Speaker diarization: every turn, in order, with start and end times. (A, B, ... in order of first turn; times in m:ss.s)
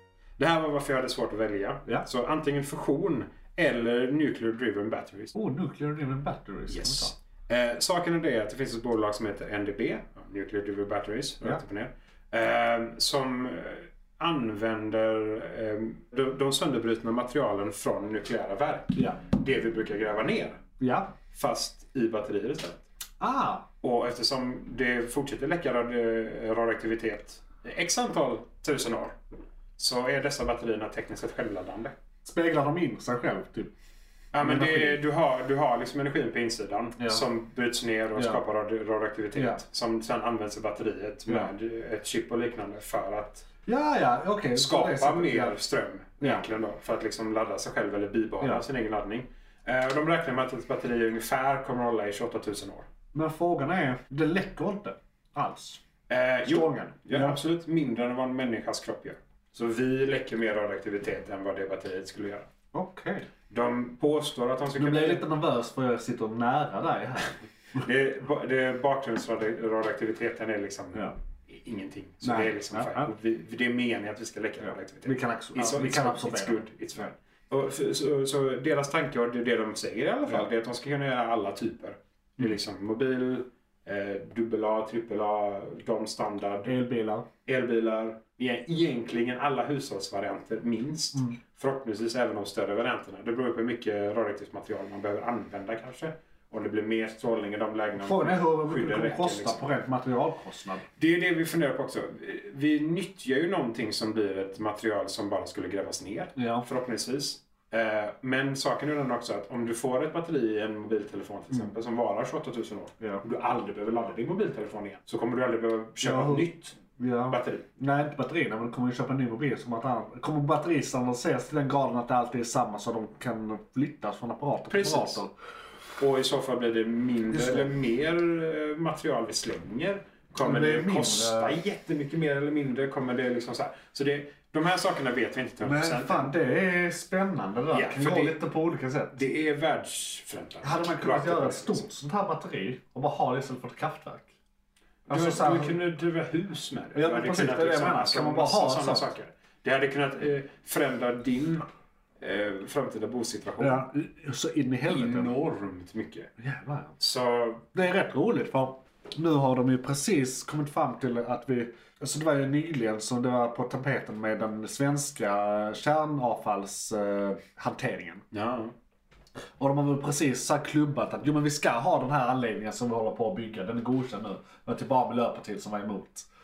0:00.4-0:05.4 A
0:05.3-0:07.1 B
0:06.7-0:20.6 A
0:19.0-0:19.2 B
0:20.8-0:21.1 B
0:21.3-0:22.8 A
0:23.2-0:23.7 B
0:23.8-0:29.2 A
0:29.8-0:32.0 A
0:32.2-0:33.7 B
0:34.3-0:43.5 A
0:34.4-0:35.0 B
0:37.0-0:37.2 B
0:38.2-0:38.4 B
0:39.4-0:39.6 B
0:43.7-0:45.6 B
0:44.6-0:52.9 A
0:46.2-0:46.4 B
0:53.1-0:55.8 B
0:56.1-1:02.5 A
0:56.4-0:57.4 B
1:02.7-1:03.3 B
1:03.5-1:05.2 A
1:04.8-1:07.8 B
1:07.8-1:26.8 A
1:12.2-1:13.1 B
1:14.6-1:17.1 B
1:26.6-1:27.3 B
1:27.5-1:39.6 A
1:38.0-1:40.8 B
1:41.0-1:56.8 A
1:46.4-1:46.7 B
1:56.0-2:05.3 B
1:57.3-1:57.6 A
2:04.7-2:05.2 A
2:06.0-2:16.4 A
2:07.3-2:07.7 B
2:10.4-2:11.6 B
2:15.6-2:19.2 B
2:17.7-2:18.4 A
2:19.1-2:21.8 A
2:20.6-2:24.3 B
2:25.1-2:25.8 B
2:25.1-2:31.7 A
2:26.9-2:29.1 B
2:32.2-2:33.9 A
2:33.6-2:35.3 B
2:34.9-2:36.3 A
2:36.4-2:37.0 B
2:37.0-2:37.7 A
2:37.7-2:48.2 B
2:48.3-2:48.7 A
2:49.6-2:56.3 B